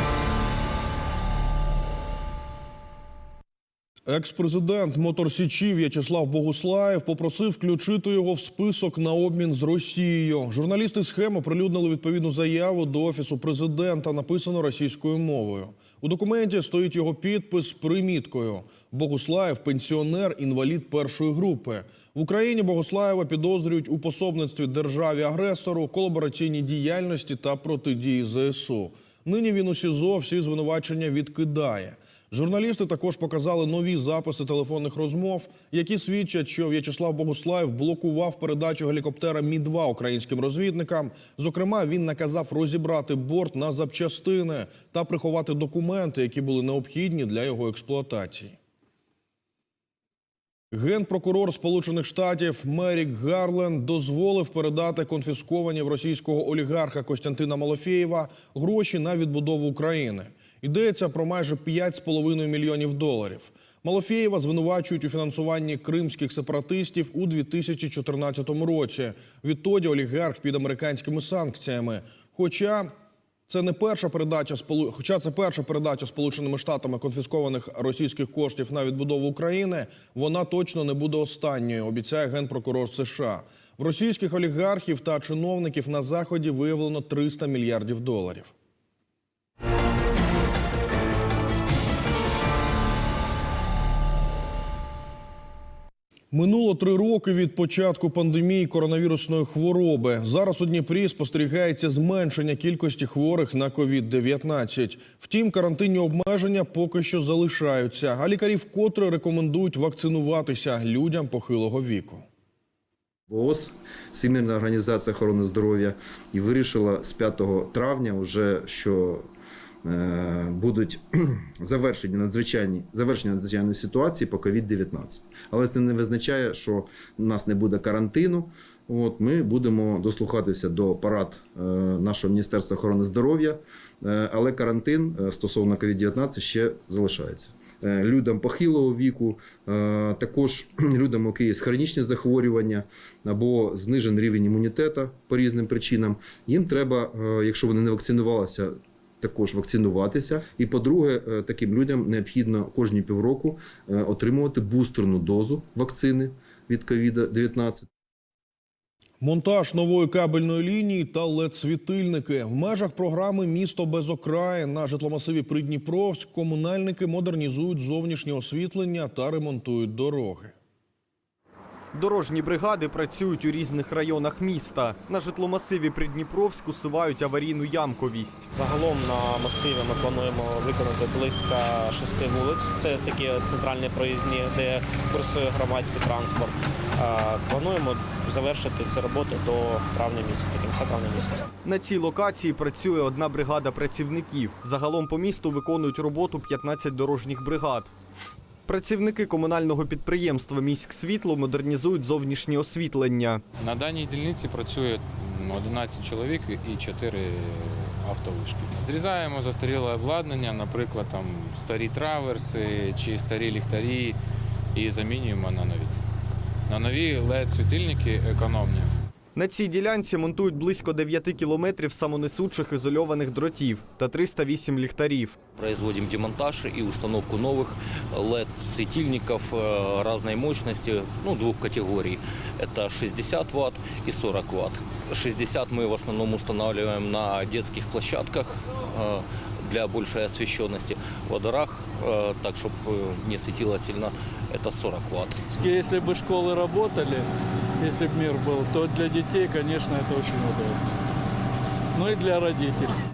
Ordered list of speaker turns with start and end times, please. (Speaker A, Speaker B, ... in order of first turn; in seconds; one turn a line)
Speaker A: 4.1-48.6
Speaker A: 50.7-72.9
Speaker A: 73.5-88.5
Speaker A: 96.3-112.2
Speaker B: 113.3-119.2
Speaker B: 119.8-157.9
Speaker A: 159.2-170.5
Speaker C: 171.9-178.5
Speaker D: 178.5-191.4
Speaker C: 191.6-197.9
Speaker C: 198.7-203.4
Speaker E: 203.6-214.2
Speaker E: 214.7-215.9
Speaker E: 216.7-218.9
Speaker C: 219.3-225.4
Speaker F: 225.6-245.4
Speaker G: 245.5-247.2
Speaker G: 247.8-250.8
Speaker G: 251.9-252.9